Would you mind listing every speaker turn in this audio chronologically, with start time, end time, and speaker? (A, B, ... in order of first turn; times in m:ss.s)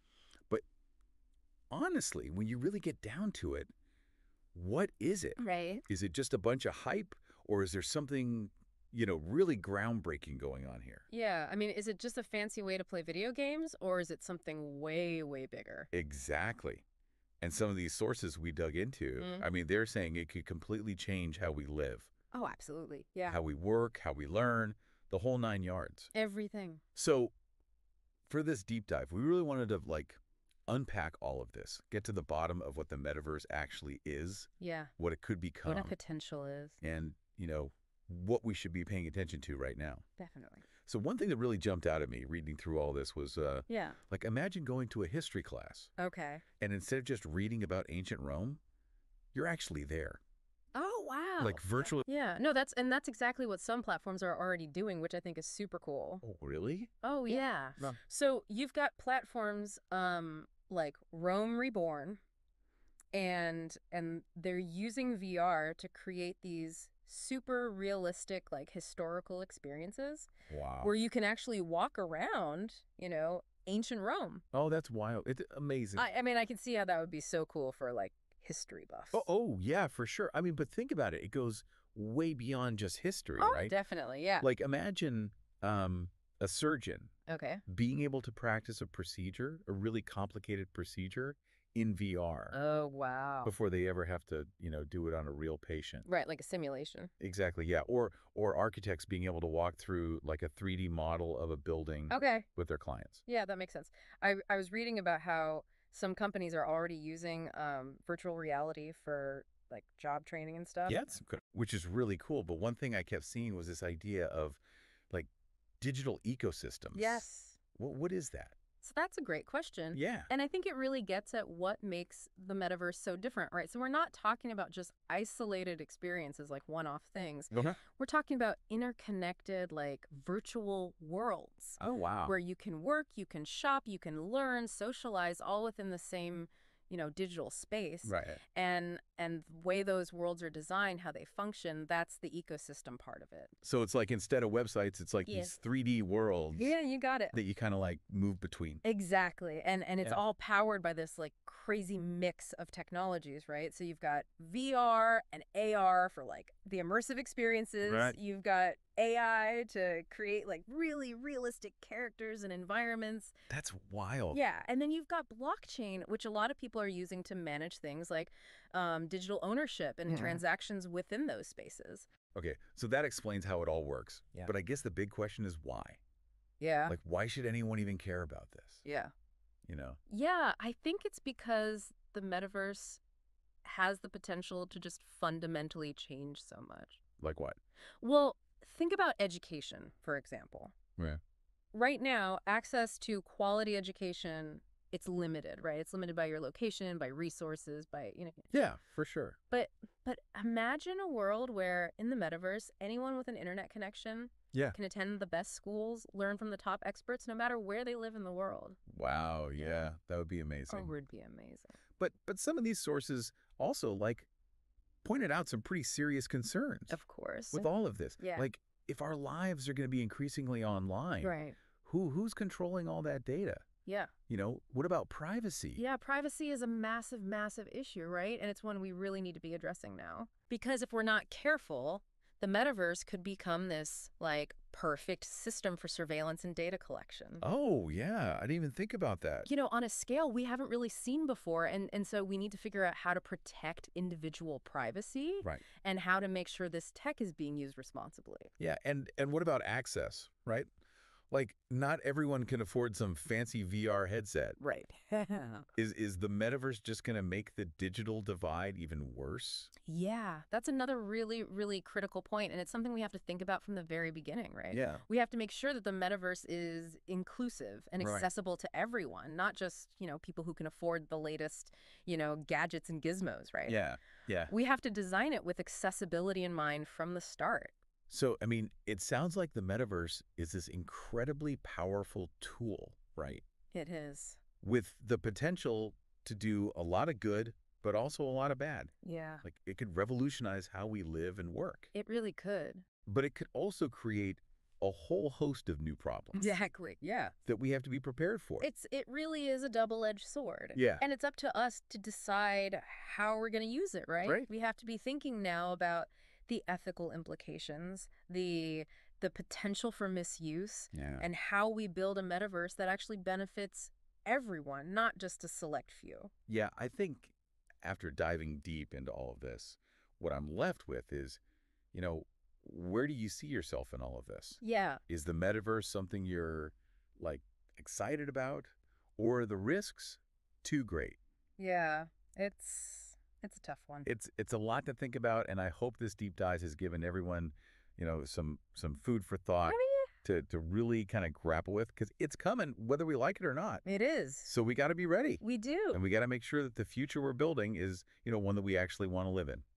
0:01.7-0:03.7 A
0:04.5-0:11.0 A
0:05.4-0:05.8 B
0:11.1-0:15.9 B
0:15.9-0:16.8 A
0:17.4-0:22.1 A
0:19.2-0:19.5 B
0:22.3-0:23.4 B
0:23.3-0:26.1 A
0:26.1-0:26.8 B
0:26.9-0:27.3 A
0:28.3-0:35.9 A
0:34.6-0:34.9 B
0:35.6-0:36.8 B
0:36.8-0:40.0 A
0:40.2-0:40.6 B
0:40.8-0:45.9 A
0:43.7-0:44.0 B
0:46.0-0:46.4 B
0:46.6-0:48.6 A
0:49.3-0:50.2 A
0:50.7-0:56.2 B
0:51.4-0:52.0 A
0:56.2-0:56.9 A
0:57.0-1:02.2 B
1:03.1-1:10.3 B
1:10.5-1:10.9 A
1:10.8-1:14.4 B
1:14.5-1:16.0 A
1:16.0-1:19.3 B
1:19.1-1:23.7 A
1:23.4-1:24.5 B
1:24.4-1:27.1 A
1:27.3-1:27.6 B
1:27.7-1:32.5 A
1:32.5-1:33.5 B
1:33.4-1:36.0 A
1:36.0-1:37.1 B
1:37.2-1:43.2 A
1:42.1-1:42.5 B
1:43.3-1:51.1 B
1:50.9-1:55.3 A
1:55.8-1:58.6 A
1:56.9-1:57.6 B
1:58.8-2:23.5 B
1:59.9-2:00.3 A
2:07.5-2:07.8 A
2:11.8-2:12.3 A
2:18.0-2:18.4 A
2:23.6-2:26.7 A
2:25.3-2:25.5 B
2:26.5-2:27.3 B
2:27.3-2:28.8 A
2:28.8-2:43.3 B
2:37.8-2:38.2 A
2:43.5-2:44.4 A
2:44.3-2:52.1 B
2:50.1-2:50.4 A
2:52.3-2:56.0 A
2:56.6-2:56.9 B
2:56.9-2:58.8 A
2:58.8-2:59.1 B
2:59.7-3:00.0 A
3:00.1-3:03.0 B
3:03.6-3:07.0 B
3:07.2-3:07.6 A
3:08.0-3:10.7 B
3:11.7-3:18.5 B
3:18.5-3:19.4 A
3:19.5-3:28.8 B
3:28.9-3:30.9 A
3:30.7-3:31.7 B
3:32.0-3:34.3 A
3:35.0-3:37.0 A
3:36.9-3:38.4 B
3:37.5-3:43.6 A
3:41.2-3:41.6 B
3:43.8-3:44.1 B
3:44.3-3:45.8 A
3:45.8-3:57.4 B
3:57.4-3:59.5 A
3:59.4-4:08.5 B
4:08.6-4:10.7 A
4:11.3-4:14.6 A
4:14.6-4:15.7 B
4:15.8-4:19.7 A
4:19.8-4:33.8 B
4:24.7-4:25.0 A
4:28.0-4:28.3 A
4:33.6-4:34.5 A
4:34.5-4:37.7 B
4:38.1-4:43.4 A
4:43.7-4:44.4 B
4:44.6-4:48.9 A
4:49.0-4:49.4 B
4:49.4-4:51.9 A
4:51.9-4:52.8 B
4:53.0-4:56.6 A
4:56.3-4:57.3 B
4:57.4-4:58.7 A
4:58.6-5:16.3 B
5:00.7-5:01.0 A
5:10.9-5:11.2 A
5:16.5-5:21.4 A
5:21.9-5:31.2 A
5:24.6-5:25.0 B
5:31.6-5:34.1 B
5:34.0-5:43.8 A
5:39.6-5:40.1 B
5:43.8-5:44.5 B
5:44.5-5:45.4 A
5:45.4-5:46.0 B
5:45.9-5:49.6 A